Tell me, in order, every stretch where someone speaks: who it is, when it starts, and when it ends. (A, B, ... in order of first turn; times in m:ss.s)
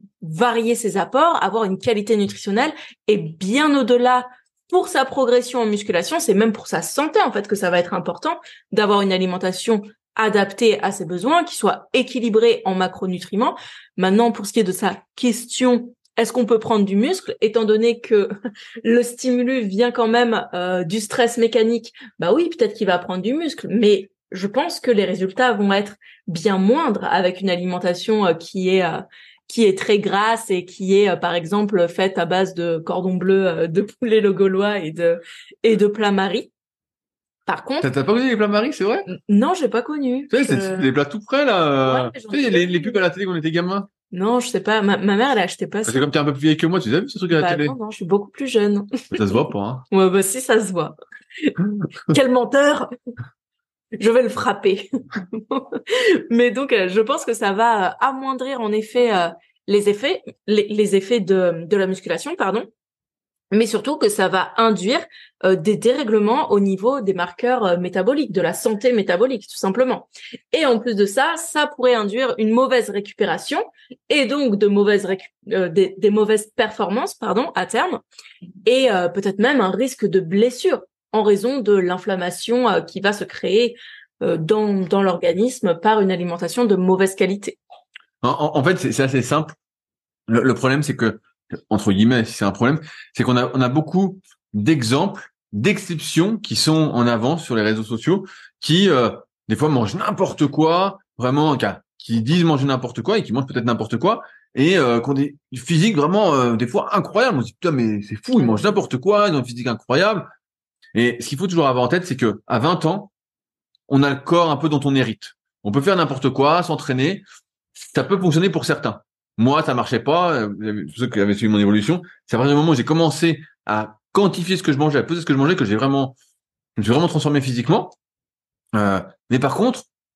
0:00.2-0:18.3 A
0:18.8-0:36.5 A
0:37.5-0:37.9 A
0:37.8-0:39.1 B
0:39.1-0:40.9 A
0:40.3-0:43.9 B
0:41.9-0:43.0 A
0:44.1-0:46.1 A
0:45.9-0:47.8 B
0:47.3-0:49.4 A
0:49.1-0:49.9 B
0:49.9-0:51.5 A
0:52.1-0:52.9 A
0:54.0-1:02.7 A
1:03.5-1:18.0 A
1:18.6-1:27.6 A
1:28.2-1:29.6 B
1:30.3-1:50.3 B
1:50.9-1:53.1 B
1:53.9-1:57.2 B
1:57.9-2:06.1 B
2:06.8-2:07.9 B
2:08.7-2:09.9 B